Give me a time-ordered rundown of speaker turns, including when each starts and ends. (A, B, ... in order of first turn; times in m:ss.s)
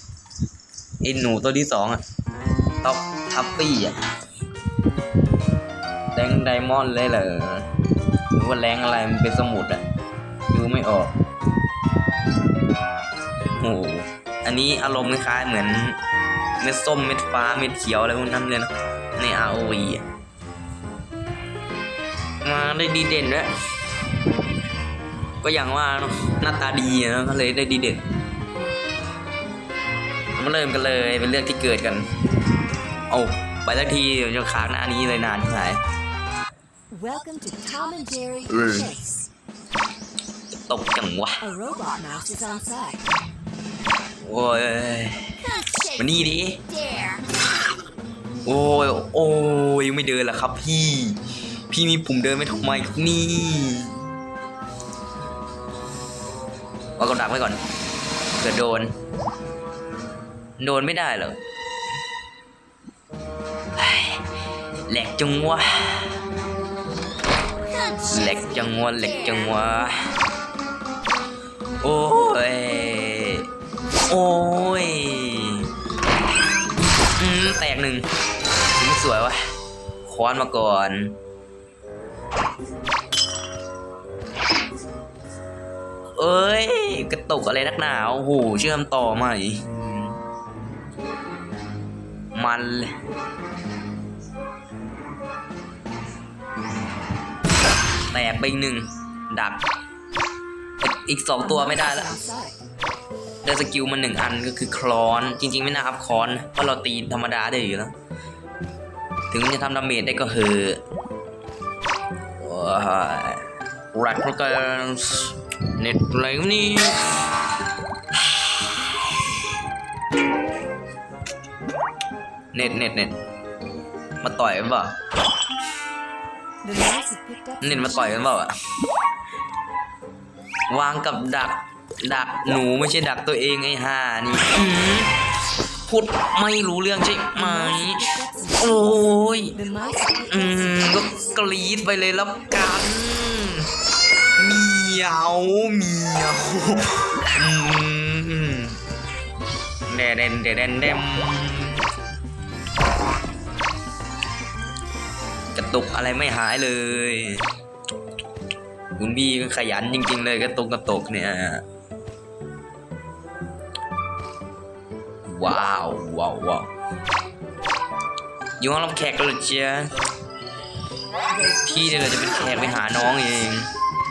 0:01.0-0:02.0 A
0:02.8-0:04.0 A
0:06.1-0:07.7 A
0:08.3-0:09.8 A
0:10.5-0:11.1 A
0:13.6-0:16.0 A
0:16.6-0:20.0 A
0:22.4-0:23.5 A
0:25.4-0:28.0 A
0:30.4-0:32.1 A
0:33.1-0:35.8 A
0:36.9-0:39.1 B
0:38.5-0:38.9 A
0:40.5-0:41.4 A
0:41.5-0:43.1 B
0:44.2-0:45.3 A
0:45.9-0:46.6 A
0:48.4-0:54.0 A
0:57.0-0:57.6 A
0:58.4-0:58.9 A
1:00.6-1:01.4 A
1:03.8-1:04.2 A
1:04.9-1:06.2 A
1:08.0-1:10.1 A
1:11.8-1:13.5 A
1:14.1-1:15.7 A
1:17.2-1:18.1 A
1:18.7-1:19.4 A
1:20.0-1:21.2 A
1:26.2-1:30.2 A
1:32.3-1:32.9 A
1:38.1-1:39.6 A
1:40.8-1:42.2 A
1:41.8-1:42.6 B
1:43.4-1:47.9 A
1:49.3-1:50.8 A
1:52.4-1:57.2 A
2:02.5-2:03.2 A
2:04.2-2:04.9 A
2:06.6-2:07.7 B
2:07.6-2:08.5 A
2:10.7-2:15.2 A
2:15.8-2:19.6 A
2:17.8-2:18.6 B
2:19.6-2:20.3 B
2:20.3-2:23.7 A
2:24.4-2:28.8 A
2:29.9-2:31.8 A
2:35.5-2:37.5 A
2:39.0-2:41.6 A
2:45.2-2:46.7 A
2:48.6-2:49.9 A
2:51.6-2:53.7 A